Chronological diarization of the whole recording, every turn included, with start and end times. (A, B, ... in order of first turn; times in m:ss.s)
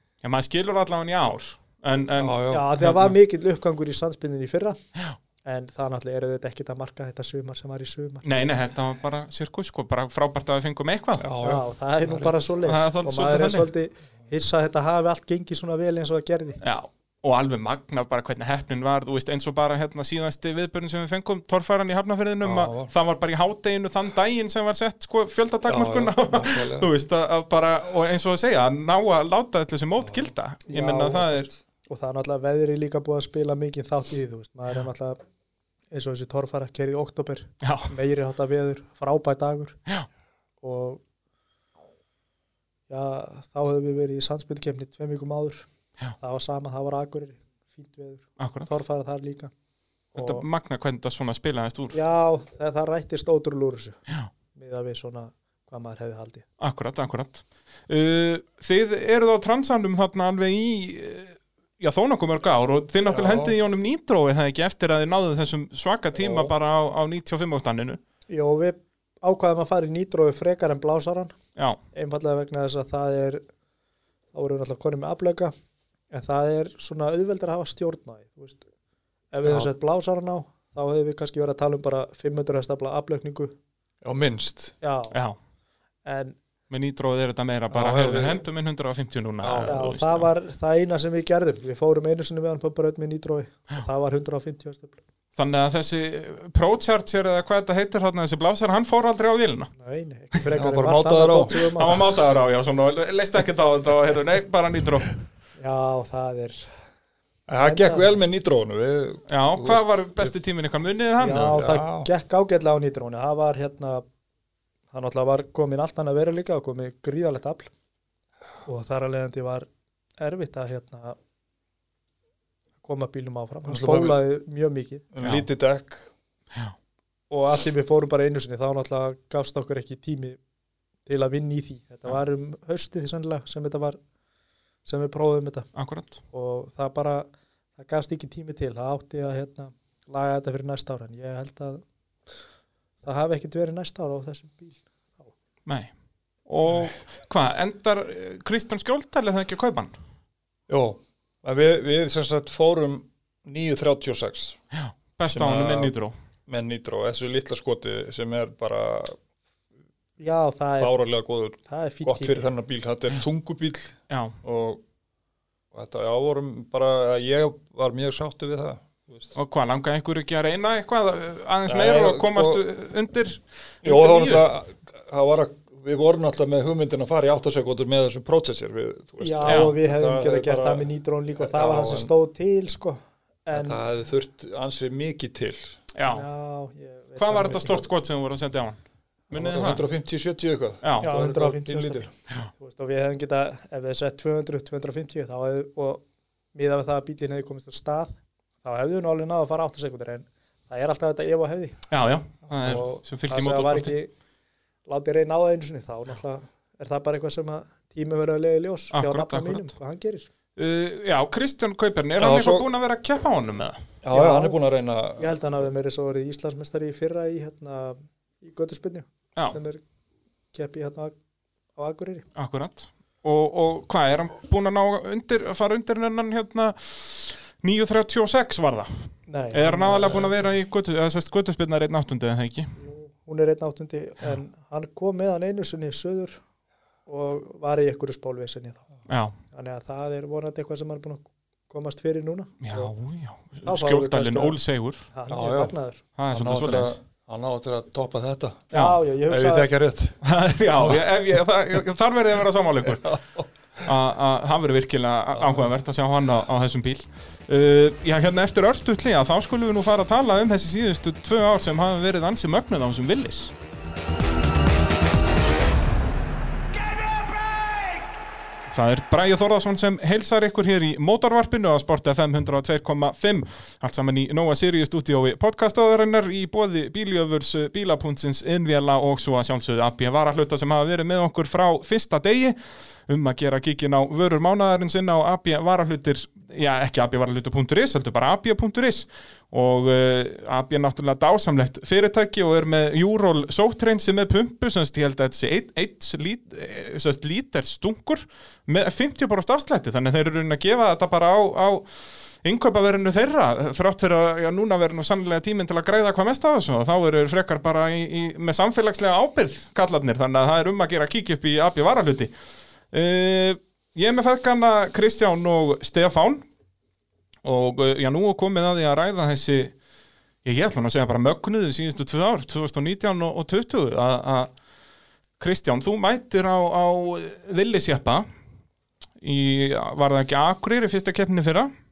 0:00.2-0:03.1 A
0:02.2-0:02.7 B
0:02.5-0:04.8 C
0:05.4-0:08.2 C
0:08.2-0:11.3 A
0:11.2-0:12.3 B
0:11.4-0:16.6 C
0:12.6-0:13.7 A
0:16.6-0:31.5 A
0:22.4-0:22.9 B
0:25.7-0:26.9 B
0:30.0-0:30.3 B
0:30.7-0:35.2 C
0:35.9-0:39.8 C
0:37.6-0:37.9 A
0:40.6-0:41.0 C
0:42.9-0:45.7 C
0:46.2-0:49.5 C
0:48.4-0:48.7 A
0:50.1-0:50.4 C
0:50.1-0:52.0 A
0:51.9-0:54.0 C
0:54.5-0:56.4 C
0:56.6-1:08.0 A
1:03.0-1:03.5 B
1:06.2-1:06.5 B
1:08.3-1:11.3 C
1:11.9-1:13.4 C
1:14.3-1:15.5 C
1:16.1-1:18.6 C
1:19.3-1:23.5 C
1:19.4-1:19.7 B
1:24.0-1:24.7 B
1:24.8-1:25.2 C
1:26.0-1:26.4 C
1:26.7-1:30.3 A
1:27.7-1:28.4 B
1:29.4-1:29.9 B
1:29.7-1:35.0 C
1:35.4-1:39.7 A
1:39.8-1:42.0 C
1:40.5-1:42.0 B
1:41.7-1:45.2 A
1:45.6-1:46.7 C
1:47.5-1:50.3 B
1:47.6-1:48.1 C
1:49.3-1:51.6 A
1:51.2-1:54.0 C
1:51.4-1:52.1 B
1:54.9-1:57.7 C
1:58.6-1:59.7 C
2:00.2-2:01.2 C
2:02.8-2:05.0 C
2:03.7-2:04.2 B
2:05.1-2:06.1 B
2:05.2-2:05.5 A
2:07.3-2:10.4 C
2:11.0-2:14.0 C
2:14.8-2:15.7 C
2:15.7-2:16.2 A
2:16.3-2:21.8 C
2:23.0-2:25.3 C
2:26.4-2:29.9 A
2:30.7-2:34.6 B
2:34.7-2:36.1 A
2:35.3-2:35.9 B
2:36.5-2:39.2 B
2:40.2-2:41.0 C
2:40.8-2:44.8 B
2:41.6-2:42.5 C
2:44.1-2:44.4 A
2:45.7-2:49.3 B
2:49.4-2:54.5 A
2:51.6-2:52.6 B
2:53.8-3:02.1 B
2:59.2-3:03.8 C
2:59.4-2:59.8 A
3:03.5-3:05.8 B
3:05.9-3:06.2 A
3:06.0-3:07.9 C
3:07.2-3:08.8 A
3:09.3-3:09.8 A
3:09.3-3:12.1 B
3:10.8-3:11.1 A
3:11.0-3:16.0 C
3:16.5-3:21.8 C
3:21.9-3:23.9 A
3:22.5-3:24.1 C
3:24.9-3:30.3 C
3:28.9-3:29.7 A
3:30.6-3:33.8 A
3:32.2-3:32.7 B
3:34.0-3:35.4 B
3:34.1-3:34.6 C
3:35.2-3:39.8 C
3:40.5-3:41.2 C
3:41.8-3:42.2 C
3:42.3-3:52.7 A
3:49.3-3:50.4 C
3:52.8-3:56.4 C
3:57.0-3:58.8 C
3:59.1-3:59.3 A
3:59.5-4:02.9 C
4:02.6-4:05.1 A
4:03.6-4:04.6 C
4:05.1-4:06.0 C
4:05.3-4:05.7 B
4:06.2-4:07.0 A
4:06.3-4:08.7 B
4:08.7-4:09.7 C
4:08.7-4:09.0 A
4:09.3-4:10.2 B
4:10.2-4:13.1 A
4:10.8-4:11.3 B
4:12.8-4:13.9 B
4:13.8-4:23.5 A
4:15.4-4:15.7 B
4:27.3-4:27.8 A
4:28.7-5:12.3 A
5:12.9-5:16.4 A
5:17.4-5:19.7 A
5:20.4-5:24.5 A
5:25.4-5:28.2 A
5:29.2-5:31.7 A